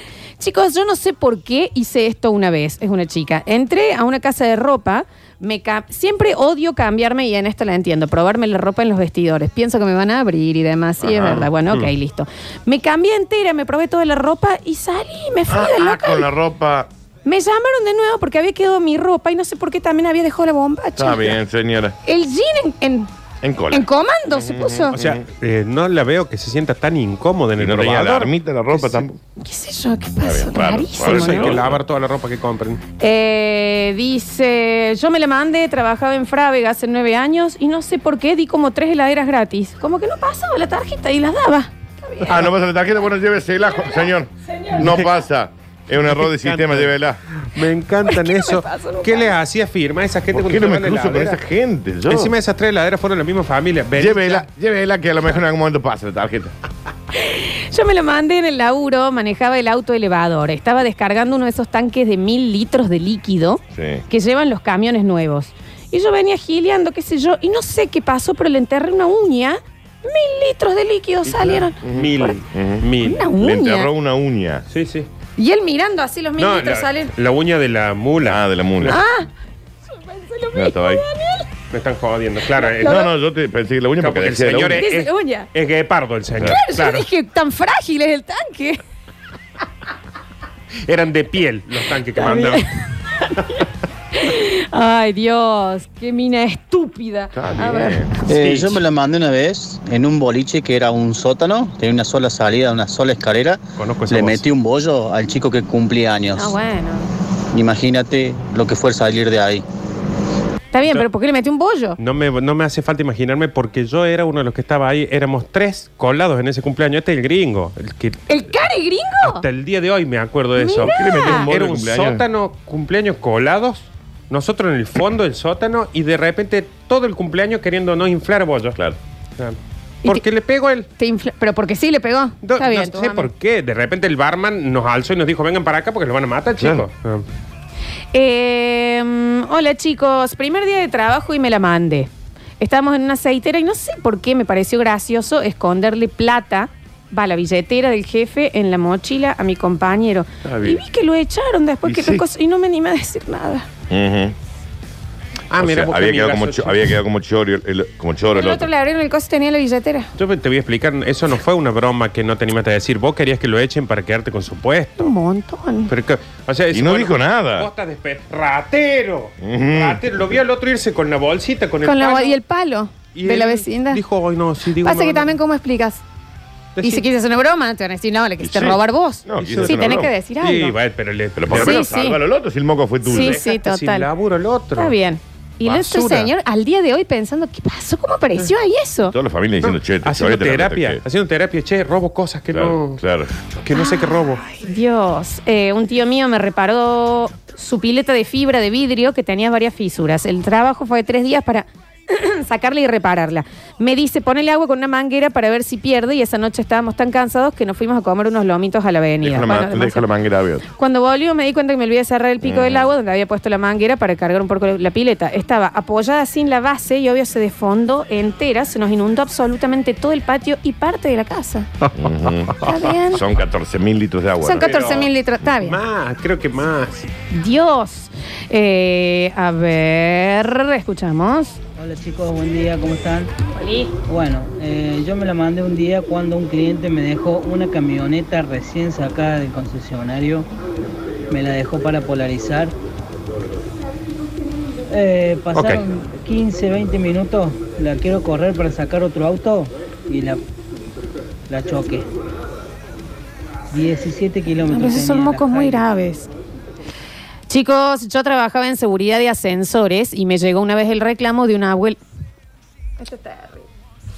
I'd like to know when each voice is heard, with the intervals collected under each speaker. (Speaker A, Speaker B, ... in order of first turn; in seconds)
Speaker A: 0.4-16.3, 17.2-21.4, 22.0-23.1, 23.7-25.0, 29.4-31.6, 33.0-42.4, 43.8-44.8, 48.1-49.4, 57.1-72.3, 73.0-73.9, 75.4-77.1, 78.9-79.3, 79.9-81.5, 82.6-83.1, 84.8-85.5, 86.4-88.8, 92.2-98.2, 106.3-107.1, 110.7-112.0, 118.3-119.5, 120.6-121.5, 131.0-133.3, 138.1-153.7, 158.3-160.1, 165.0-165.9, 171.8-174.0, 174.8-176.0, 176.8-180.7, 181.5-182.2, 183.1-184.1, 184.8-189.2, 193.7-210.1, 210.8-221.7, 222.6-223.2, 224.4-225.8, 227.3-231.6, 233.5-233.9, 254.7-256.3, 257.5-262.0, 263.0-263.6
Speaker B: 11.1-11.9, 24.9-29.1, 31.0-32.8, 44.8-45.0, 46.0-51.4, 52.1-54.5, 71.3-73.3, 74.7-75.1, 76.4-79.0, 81.7-83.0, 84.0-87.1, 90.9-92.6, 98.4-98.8, 103.8-104.4, 112.0-118.2, 119.2-128.8, 129.4-130.9, 132.4-137.2, 155.5-157.0, 160.2-165.1, 165.9-172.4, 173.1-175.4, 176.8-177.1, 179.4-181.8, 183.1-185.0, 185.6-186.3, 189.6-193.0, 193.6-194.4, 221.8-222.7, 224.6-227.1, 245.5-245.8
Speaker C: 15.5-16.9, 21.0-21.9, 23.4-25.2, 27.6-29.2, 30.2-31.8, 42.3-47.2, 50.3-52.4, 54.0-56.5, 63.8-64.0, 71.8-74.7, 78.2-79.0, 80.5-81.0, 82.8-84.9, 97.3-98.1, 120.8-122.3, 136.6-136.9, 150.4-150.8, 151.8-152.2, 153.9-154.3, 155.6-158.7, 166.7-167.7, 169.4-170.2, 178.4-180.1, 181.4-183.4, 189.1-191.0, 192.5-193.3, 209.2-210.7, 212.4-212.9, 221.9-224.7
Speaker D: 98.3-106.6, 107.5-109.7
Speaker E: 231.8-233.3, 234.1-240.5, 241.3-242.8, 244.9-250.4, 251.5-252.1, 253.7-255.8